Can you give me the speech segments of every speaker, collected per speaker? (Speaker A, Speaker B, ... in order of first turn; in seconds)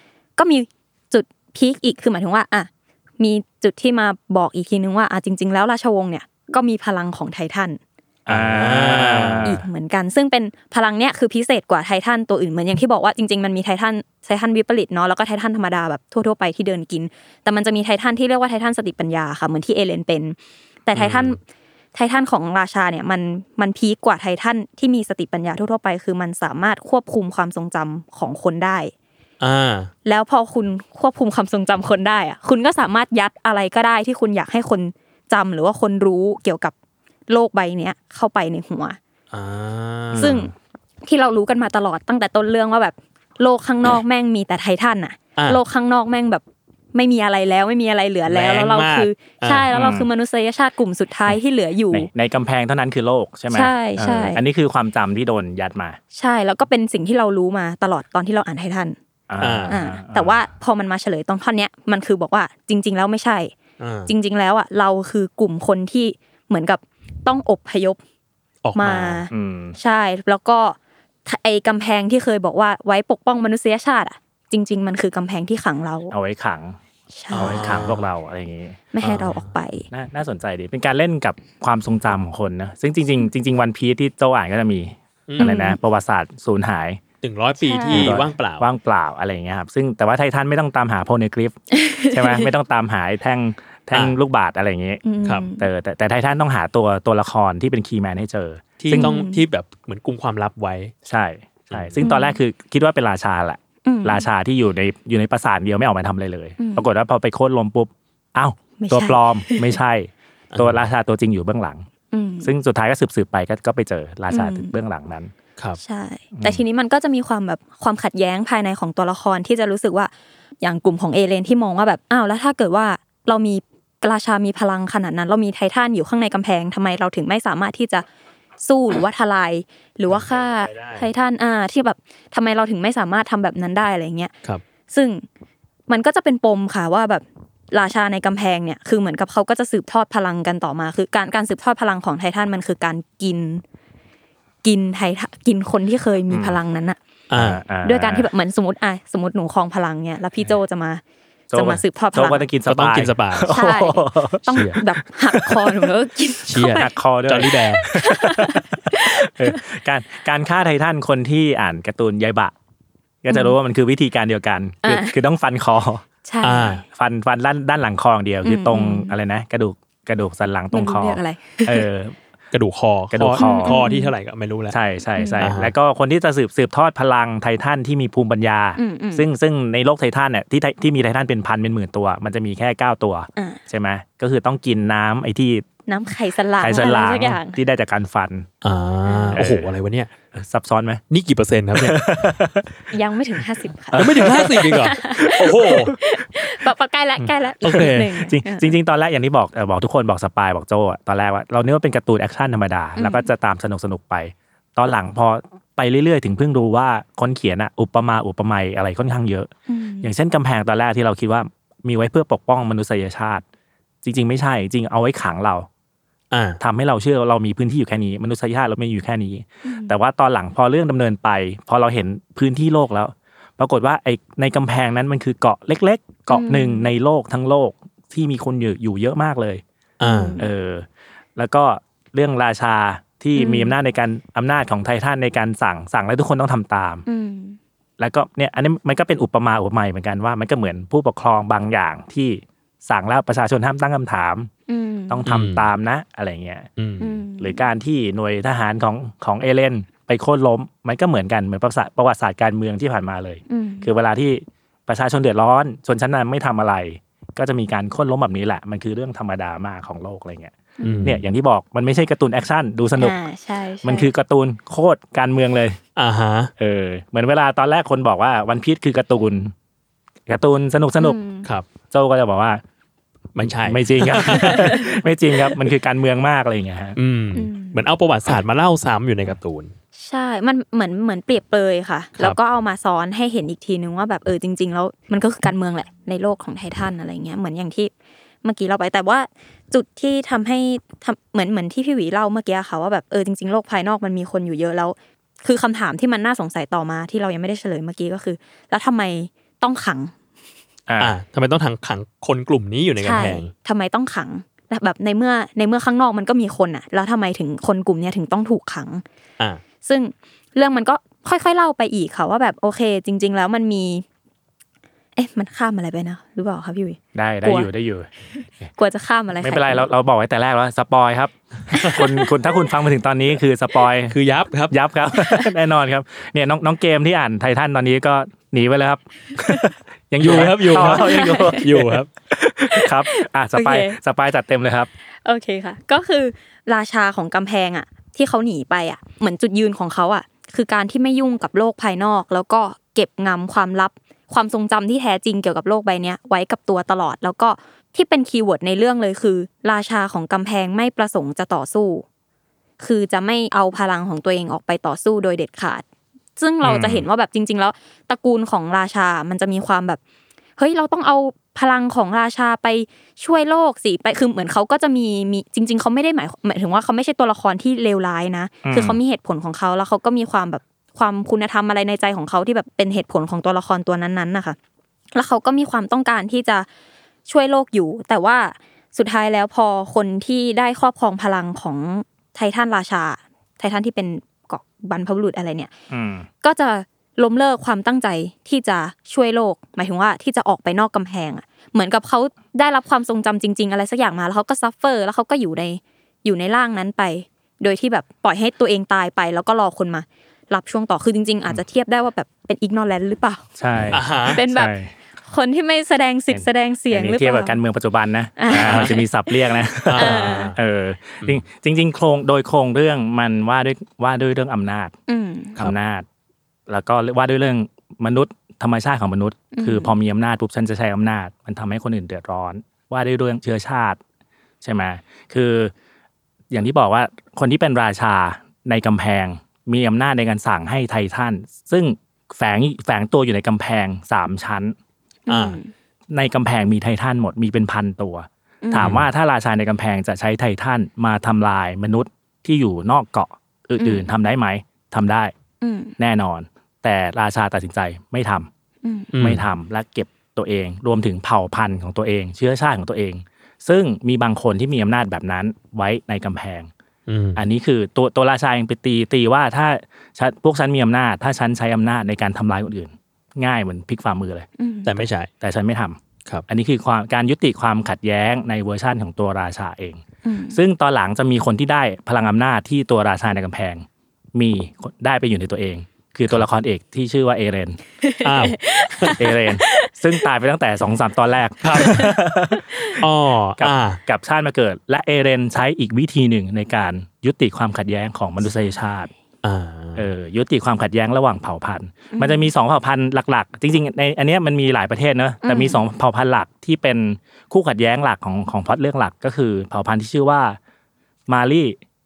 Speaker A: 0.4-2.7, 3.2-7.8, 9.4-20.4, 20.9-21.4, 21.9-28.9, 30.1-36.7, 37.3-39.0, 40.2-40.5, 41.0-46.4, 46.9-52.1, 53.5-54.4, 56.1-59.0, 59.7-63.5, 64.1-68.0, 68.8-76.2, 77.1-77.8, 78.9-79.9, 85.4-85.8, 87.6-88.2, 91.7-92.5, 95.0-95.7, 99.0-99.5, 102.0-102.4, 103.8-104.2, 106.6-106.9, 108.8-109.8, 112.1-112.5, 114.3-114.7, 115.8-128.1, 128.6-134.3, 134.9-135.2, 135.9-143.6, 144.6-147.0, 147.8-151.0, 151.5-152.5, 153.5-156.9, 157.9-159.6, 163.3-163.5, 164.8-165.2, 166.3-166.8, 168.4-169.2, 170.7-171.9, 173.4-174.1, 175.2-175.5, 178.8-179.3, 185.9-187.6, 189.1-189.4, 192.9-198.7, 203.0-203.3, 209.7-210.1, 219.7-219.9, 226.3-226.9, 230.0-230.5, 233.3-233.7, 237.1-237.6, 244.7-245.2, 247.0-247.6, 253.5-253.9, 260.8-261.1, 263.0-264.1, 271.0-271.5, 274.4-274.9, 277.4-277.8, 280.0-287.9, 288.4-300.1, 303.0-309.0, 309.9-314.1, 315.2-317.7, 318.8-319.9, 321.8-322.2, 330.8-331.6, 332.7-334.0, 335.2-352.1, 352.8-355.8, 356.4-360.0, 360.6-374.6, 375.1-376.7, 377.3-385.7, 386.4-403.4, 404.3-404.7, 405.2-407.6, 408.4-409.4, 410.0-410.6, 415.1-415.6, 419.5-419.9, 435.3-435.7, 438.6-438.9, 443.8-444.1, 445.6-445.9, 448.8-449.1, 464.6-464.9, 470.2-470.6, 478.0-479.9, 481.8-483.0, 492.1-492.5, 495.4-495.8
Speaker B: 8.3-9.6, 49.7-50.1, 51.9-56.0, 59.3-60.5, 69.3-69.8, 76.1-76.8, 77.3-78.8, 79.9-87.0, 87.9-99.1, 101.1-111.9, 112.4-115.3, 116.3-116.6, 146.3-146.6, 147.3-148.3, 151.5-155.9, 156.7-162.5, 163.2-166.0, 166.9-172.2, 173.1-173.8, 174.7-185.7, 186.6-188.5, 189.4-189.7, 190.3-191.0, 191.8-192.7, 193.9-195.3, 198.2-209.5, 210.0-213.4, 214.0-215.7, 216.6-229.6, 230.4-237.1, 238.0-244.5, 245.1-246.7, 247.4-263.1, 263.8-265.8, 266.6-269.5, 270.3-271.2, 271.9-272.6, 273.6-277.0, 300.9-301.1, 317.1-318.1, 319.4-324.2, 324.7-334.9, 356.6-357.1, 368.6-369.0, 385.9-386.3, 403.6-404.9, 406.3-414.9, 415.6-416.1, 416.7-424.0, 424.6-425.7, 426.5-434.8, 436.1-445.3, 446.0-448.5, 449.2-456.7, 457.4-464.5, 465.4-477.8, 479.2-482.9, 483.6-489.1, 490.0-500.6, 501.3-501.8
Speaker C: 8.3-9.5, 20.9-21.4, 29.4-29.9, 39.3-40.5, 45.4-45.6, 48.3-49.7, 59.4-59.8, 63.8-64.1, 68.6-69.2, 77.3-78.0, 79.0-79.5, 85.3-85.6, 87.2-88.7, 98.8-100.9, 101.7-102.0, 110.5-110.9, 130.1-131.1, 147.3-147.6, 152.7-153.6, 154.5-154.8, 156.5-157.9, 166.4-166.8, 172.5-174.8, 175.4-175.7, 188.6-190.1, 191.1-192.2, 194.0-195.9, 197.6-198.2, 216.3-216.6, 230.0-230.4, 245.3-245.7, 246.8-247.2, 260.8-261.2, 266.0-266.5, 273.4-274.7, 277.0-279.7, 301.0-303.5, 321.7-322.1, 324.1-324.8, 330.2-332.1, 403.9-404.4, 408.5-409.0, 409.9-410.6, 435.3-435.6, 438.8-439.1, 449.1-449.4, 457.1-457.4, 464.9-465.3, 478.2-479.2, 481.6-482.0, 483.0-484.0, 489.4-490.1